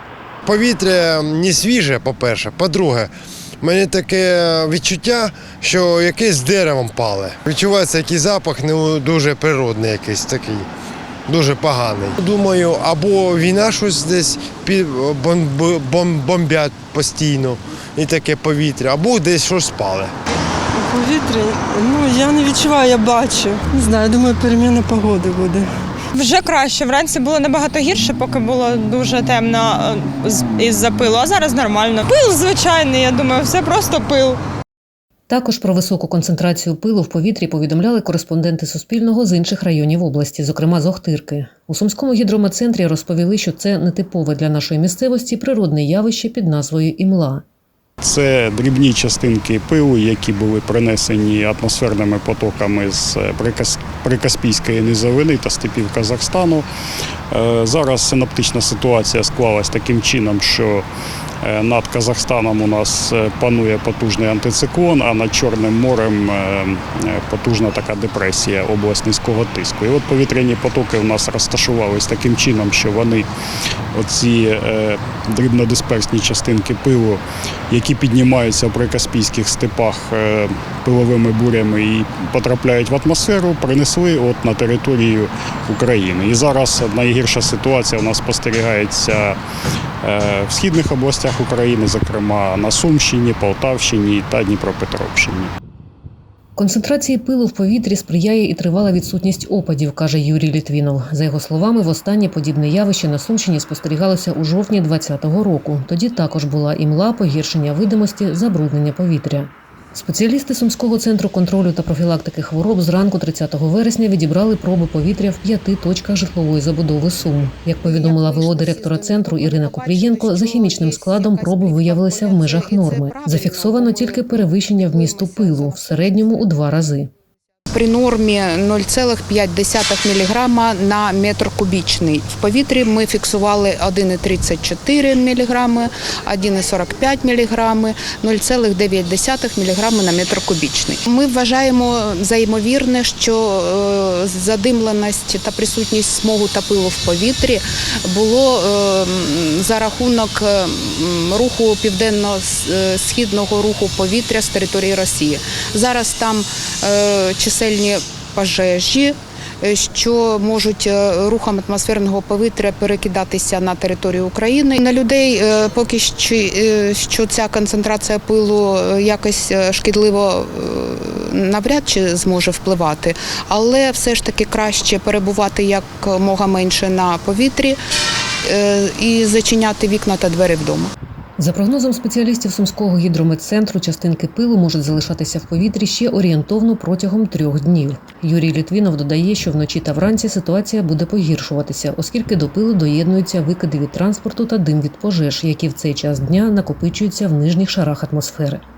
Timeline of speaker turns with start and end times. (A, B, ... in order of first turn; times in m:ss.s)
0:00.4-0:10.7 A
0:11.3-0:20.1 A
0:20.8-0:25.7 B
0:26.1-0:34.4 C
0:35.3-0:47.4 D
0:48.0-0:56.6 E
0:57.3-1:00.8 E
1:01.4-1:13.3 E
1:13.9-1:29.4 E
1:30.0-1:35.5 E
1:36.6-2:07.1 D
1:57.8-2:05.8 F
2:07.7-2:57.8 F
2:58.4-3:00.9 F
3:01.4-3:18.6 D